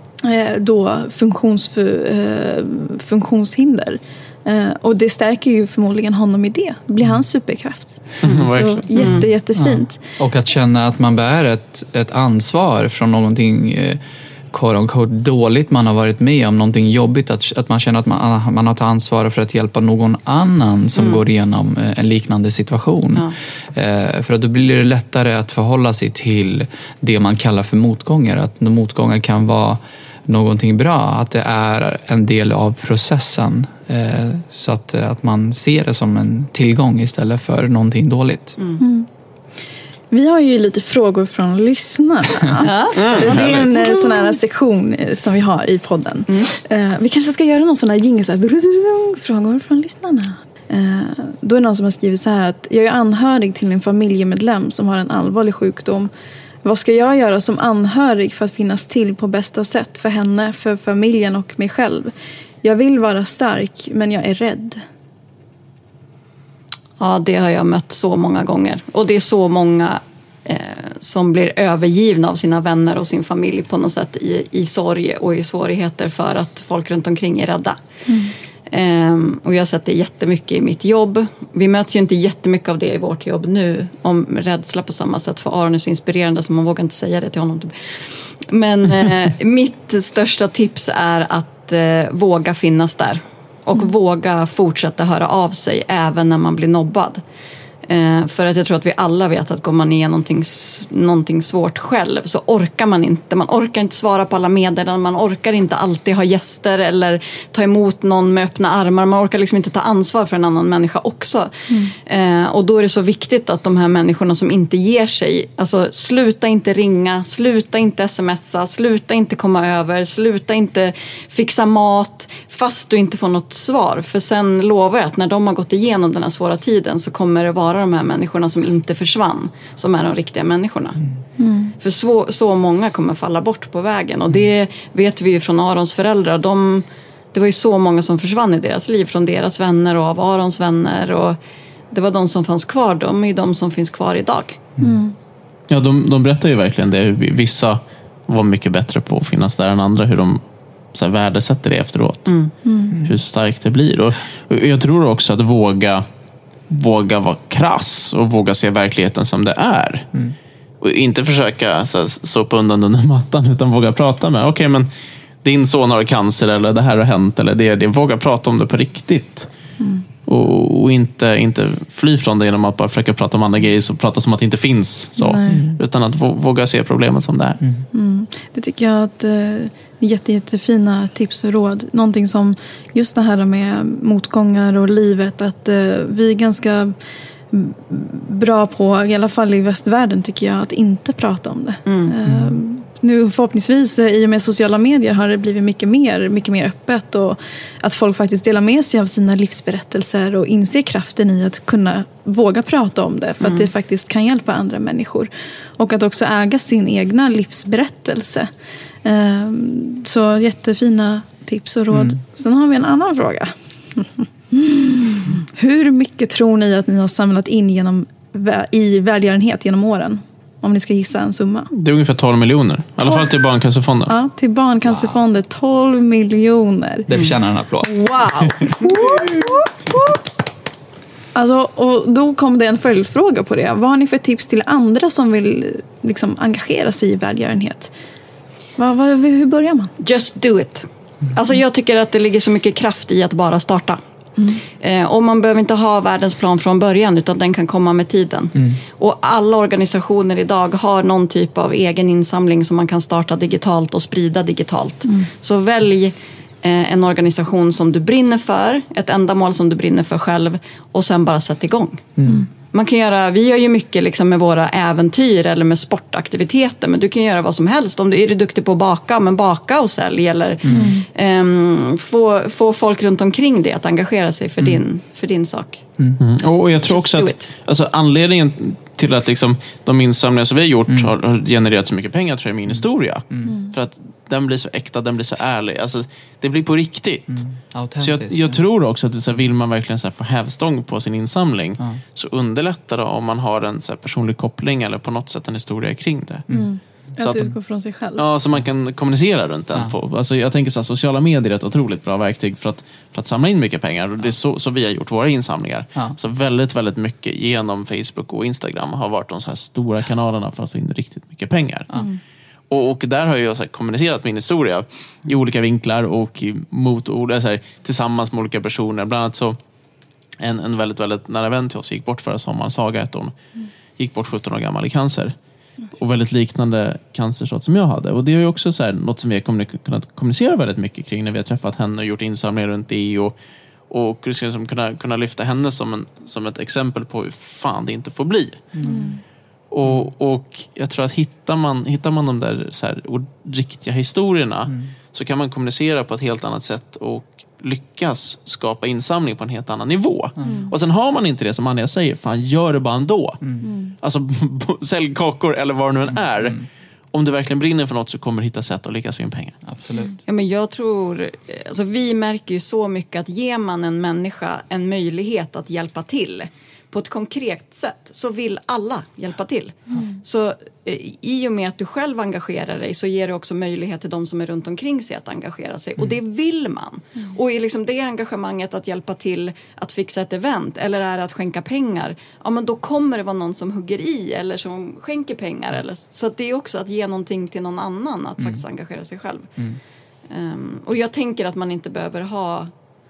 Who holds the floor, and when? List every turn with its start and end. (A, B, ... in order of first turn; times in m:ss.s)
0:00.2-0:10.0 A
0:08.2-0:09.2 B
0:09.0-0:09.3 C
0:09.6-0:14.0 D
0:14.5-0:38.6 D
0:21.0-0:21.2 C
0:38.6-0:38.8 C
0:38.8-0:39.1 A
0:40.1-0:56.1 A
0:42.6-0:44.4 C
0:43.0-0:43.8 B
0:46.3-0:46.5 C
0:56.6-1:04.8 A
1:07.0-1:17.8 C
1:18.1-1:18.3 A
1:18.7-1:37.2 C
1:37.9-2:11.0 C
2:11.4-2:11.7 A
2:11.8-2:21.4 C
2:21.9-2:24.6 C
2:24.8-2:25.2 A
2:25.7-2:30.4 B
2:30.9-2:32.3 B
2:32.3-2:32.5 C
2:32.7-2:33.0 A
2:33.0-2:36.0 B
2:36.7-2:40.1 B
2:40.8-2:44.9 B
2:45.4-2:49.5 B
2:49.8-2:50.0 A
2:50.3-2:57.6 B
2:55.2-2:55.6 A
2:55.5-2:55.8 D
2:57.6-2:57.9 D
2:57.9-3:07.0 A
3:07.5-3:28.5 A
3:11.9-3:12.2 C
3:12.3-3:12.6 D
3:23.4-3:23.7 C
3:29.0-3:41.7 A
3:31.9-3:32.2 D
3:41.7-3:44.2 B
3:43.0-3:43.4 A
3:44.1-3:47.1 A
3:44.9-3:45.2 D
3:47.1-3:48.0 D
3:47.8-3:50.2 A
3:51.3-3:57.9 A
3:58.8-3:59.9 A
4:00.0-4:04.0 C
4:04.4-4:04.6 A
4:04.8-4:22.1 C
4:22.2-4:22.5 D
4:22.7-4:35.8 C
4:30.6-4:30.9 D
4:30.7-4:31.1 A
4:36.2-4:47.4 B
4:36.8-4:37.5 C
4:42.7-4:43.6 D
4:43.5-4:43.8 A
4:47.3-4:48.6 D
4:48.0-4:56.5 B
4:56.5-4:58.2 A
4:57.2-4:57.5 B
4:58.2-5:11.9 B
5:12.7-5:19.6 B
5:20.4-5:23.4 B
5:24.0-5:25.4 B
5:26.0-5:33.4 B
5:33.9-5:38.7 B
5:38.8-5:39.2 D
5:38.8-5:39.2 A
5:39.7-5:53.4 B
5:50.4-5:50.7 D
5:50.4-5:50.8 A
5:53.4-5:53.7 D
5:53.6-5:54.0 A
5:54.0-5:56.6 B
5:56.1-5:56.7 D
5:57.1-5:59.6 B
5:59.6-6:00.2 D
6:00.3-6:29.5 C
6:09.9-6:10.2 A
6:28.4-6:28.6 D
6:30.3-6:32.7 C